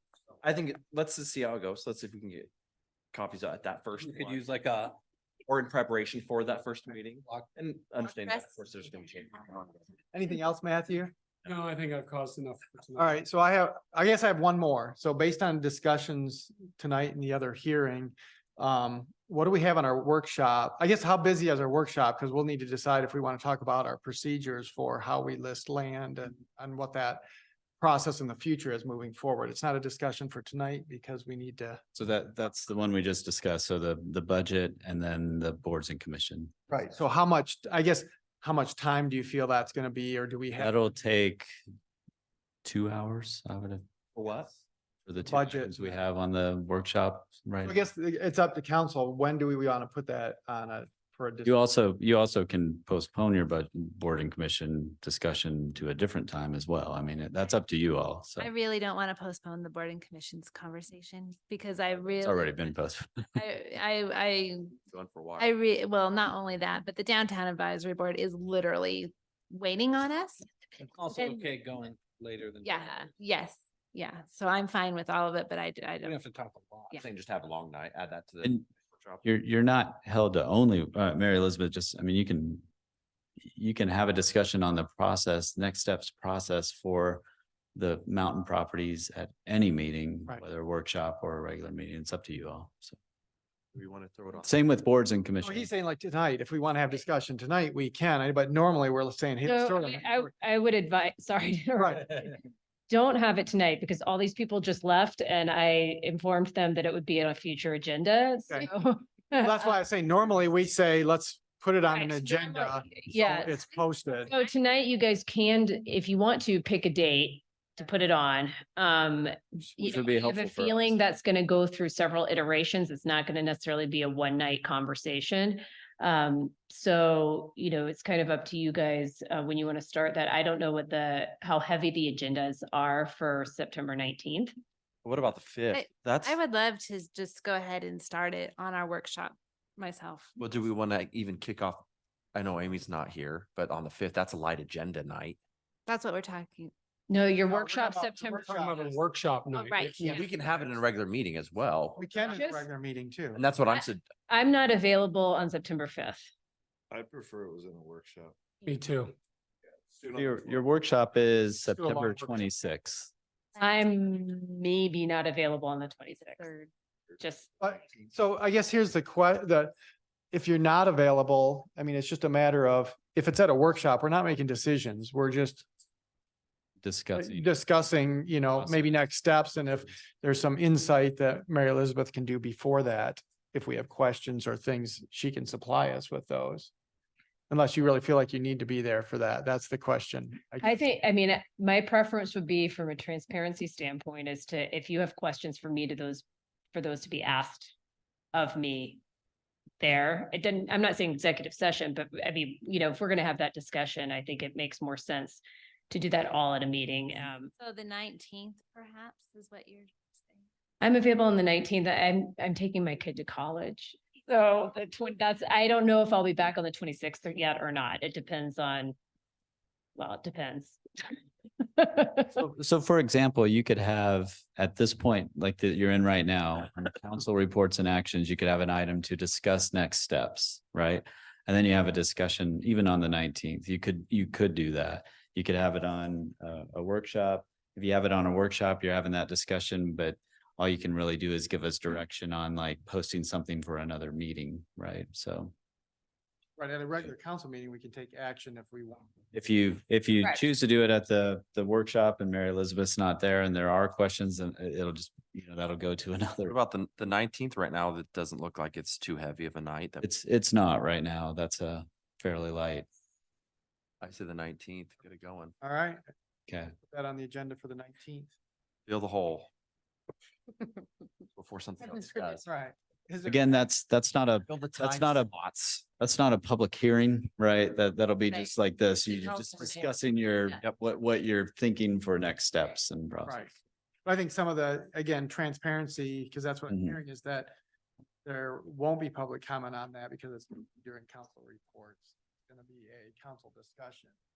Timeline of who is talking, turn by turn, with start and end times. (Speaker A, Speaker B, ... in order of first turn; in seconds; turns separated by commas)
Speaker A: 0.4-2.5, Speaker A: 3.1-4.5, Speaker B: 4.0-4.3, Speaker C: 4.0-5.0, Speaker A: 5.5-9.8, Speaker D: 8.1-8.3, Speaker E: 10.1-11.1, Speaker B: 11.4-13.2, Speaker E: 12.9-27.2, Speaker E: 27.8-31.8, Speaker F: 31.9-36.5, Speaker E: 36.7-40.8, Speaker F: 40.6-41.5, Speaker F: 42.6-43.8, Speaker A: 44.1-44.5, Speaker F: 45.0-47.8, Speaker E: 45.2-46.0, Speaker E: 47.6-51.6, Speaker F: 51.4-58.5, Speaker D: 58.4-62.7, Speaker F: 62.2-63.4, Speaker D: 63.4-64.8, Speaker A: 64.9-65.5, Speaker D: 65.3-70.5, Speaker C: 70.8-73.1, Speaker D: 71.1-71.4, Speaker D: 72.6-76.2, Speaker C: 76.0-77.0, Speaker A: 76.9-79.2, Speaker F: 79.2-82.6, Speaker F: 83.5-87.2, Speaker F: 87.7-93.0, Speaker A: 93.7-94.5, Speaker F: 94.4-95.7, Speaker E: 95.4-100.3, Speaker G: 99.4-109.7, Speaker E: 101.8-102.0, Speaker E: 109.3-114.3, Speaker G: 111.9-113.6, Speaker G: 114.2-134.5, Speaker F: 119.8-121.0, Speaker A: 135.0-136.4, Speaker D: 135.7-140.4, Speaker A: 140.4-145.4, Speaker D: 145.9-146.7, Speaker G: 147.1-148.5, Speaker E: 147.4-149.0, Speaker B: 148.3-150.3, Speaker D: 149.7-150.2, Speaker A: 150.0-152.0, Speaker E: 151.9-153.5, Speaker G: 152.3-152.7, Speaker A: 153.3-154.1, Speaker G: 154.3-156.3, Speaker H: 156.9-158.4, Speaker B: 158.6-159.2, Speaker H: 159.9-160.6, Speaker F: 160.1-163.1, Speaker D: 163.6-163.9, Speaker G: 163.6-166.5, Speaker D: 166.3-166.7, Speaker G: 167.2-167.5, Speaker E: 167.6-169.7, Speaker E: 170.3-175.7, Speaker F: 176.8-177.5, Speaker E: 177.2-186.7, Speaker F: 178.5-179.0, Speaker E: 187.5-190.8, Speaker G: 190.6-197.7, Speaker G: 198.3-199.0, Speaker G: 199.8-207.5, Speaker D: 207.6-210.4, Speaker G: 210.8-218.9, Speaker G: 219.9-221.1, Speaker G: 221.6-222.3, Speaker F: 222.3-245.5, Speaker E: 246.6-249.1, Speaker F: 249.3-256.5, Speaker A: 256.5-260.1, Speaker F: 260.0-262.9, Speaker A: 264.0-265.5, Speaker E: 265.6-266.0, Speaker F: 266.5-266.7, Speaker E: 266.8-268.3, Speaker A: 268.9-269.5, Speaker A: 271.4-272.4, Speaker E: 272.2-273.6, Speaker F: 273.2-283.5, Speaker A: 274.5-275.8, Speaker D: 279.1-280.6, Speaker E: 283.2-283.5, Speaker E: 284.0-287.5, Speaker F: 286.7-287.0, Speaker E: 288.2-294.1